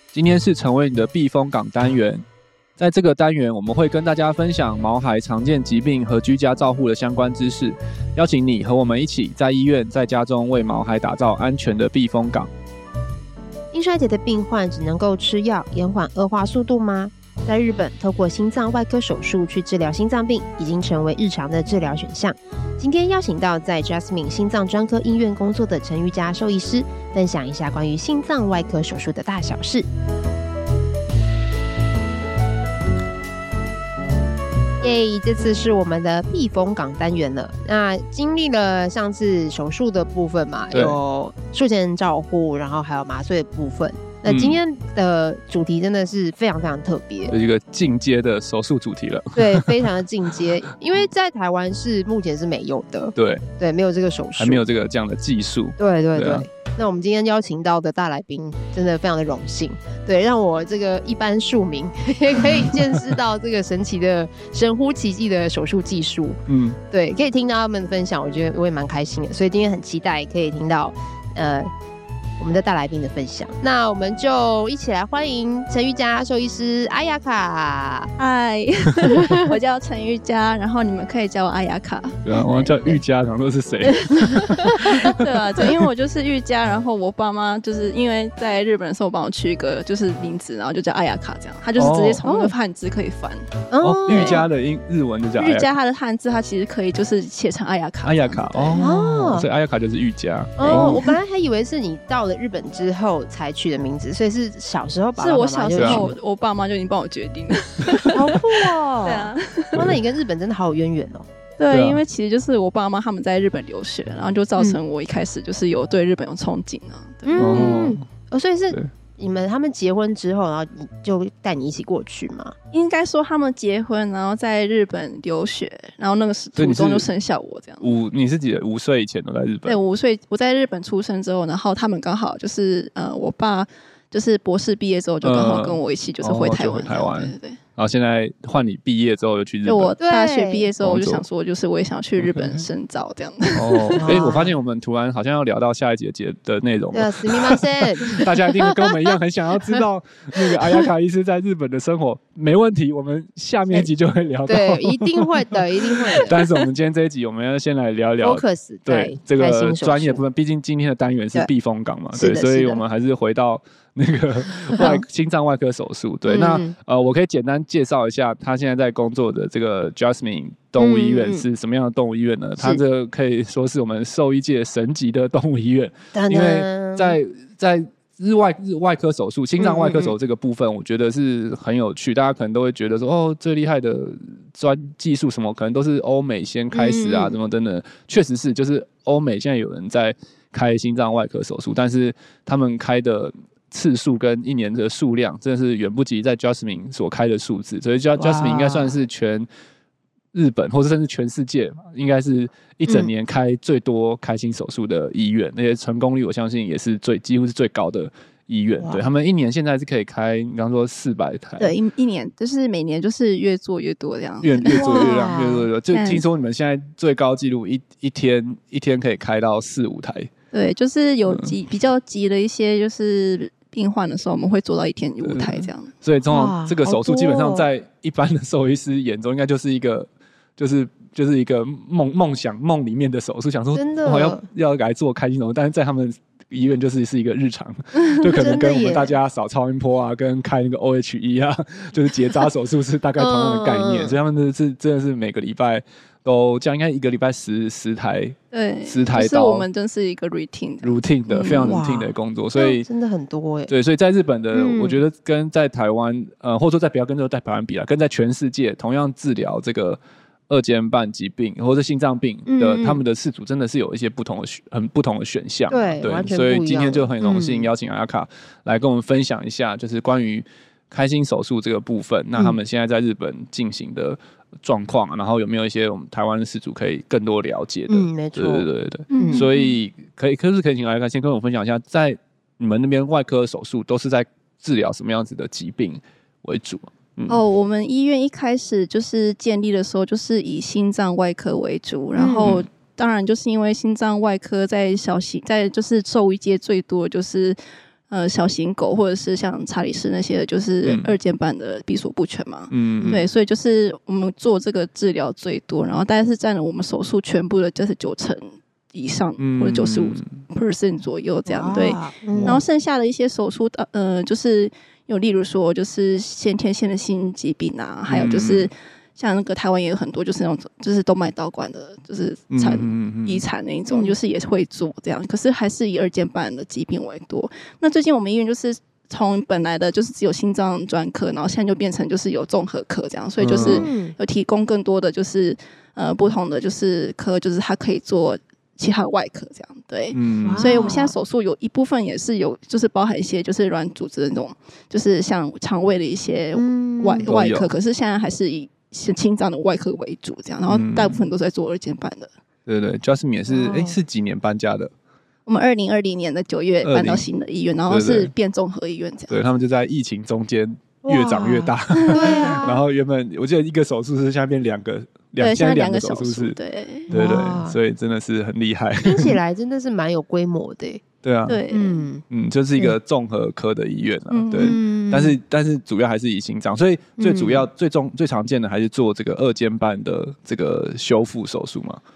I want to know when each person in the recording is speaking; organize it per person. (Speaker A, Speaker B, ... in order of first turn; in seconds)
Speaker A: 0.1-2.2, 2.8-12.5, 40.7-41.0, 44.3-44.6, 47.3-50.0, 53.2-53.5, 54.4-56.5, 66.5-66.8, 82.2-85.8, 91.8-92.2, 93.8-95.7, 98.0-101.1, 105.8-106.1, 111.7-112.0, 117.4-118.0, 126.6-127.1, 127.8-129.8, 135.2-139.9, 140.8-141.2, 142.2-142.7, 143.5-199.5, 200.3-211.8, 214.4-220.3, 221.3-221.5, 225.2-249.7, 250.8-252.9, 253.7-287.4, 292.4-292.7, 300.9-301.1, 302.7-303.2, 309.4-310.4, 312.4-312.6, 318.1-318.7, 322.5-323.4, 333.4-333.9, 340.1-340.7, 347.2-347.7, 350.7-351.3, 352.7-354.9, 356.8-357.3, 357.9-358.3, 359.3-366.6, 367.1-369.4, 371.2-371.6, 372.3-382.0
Speaker B: 13.7-29.9, 34.8-47.3, 49.4-54.6, 55.8-66.4, 66.9-71.7, 72.4-78.1, 92.2-92.5, 93.7-94.5, 98.8-99.5, 100.6-106.1, 108.1-111.3, 117.3-122.5, 140.0-140.7, 144.0-144.6, 146.9-149.8, 150.4-150.9, 154.5-156.7, 158.2-160.2, 162.1-162.8, 164.8-165.0, 166.3-166.8, 170.8-171.5, 176.1-177.2, 179.6-180.2, 186.7-187.4, 198.2-199.0, 208.8-209.0, 214.8-215.7, 226.3-227.7, 233.8-234.4, 238.2-239.2, 243.2-244.2, 251.6-253.7, 254.5-255.0, 262.5-263.0, 265.7-267.7, 277.9-278.7, 279.2-279.5, 292.1-292.6, 311.5-312.6, 323.9-324.2, 333.6-334.2, 340.4-341.1, 346.6-347.3, 353.5-354.0, 361.0-362.8, 367.1-367.8, 369.0-371.0, 371.7-372.2, 374.6-375.4, 377.2-377.7
Speaker C: 78.2-83.0, 83.8-93.5, 94.1-94.4, 95.4-98.9, 100.7-101.0, 105.2-109.9, 111.6-117.7, 122.7-127.9, 129.7-137.6, 139.7-144.1, 211.6-215.3, 215.9-216.2, 220.5-225.9, 248.5-251.8, 279.1-279.7, 287.3-297.6, 298.1-352.3, 355.5-359.4, 361.9-362.7, 365.4-367.1, 371.5-372.1, 374.3-374.8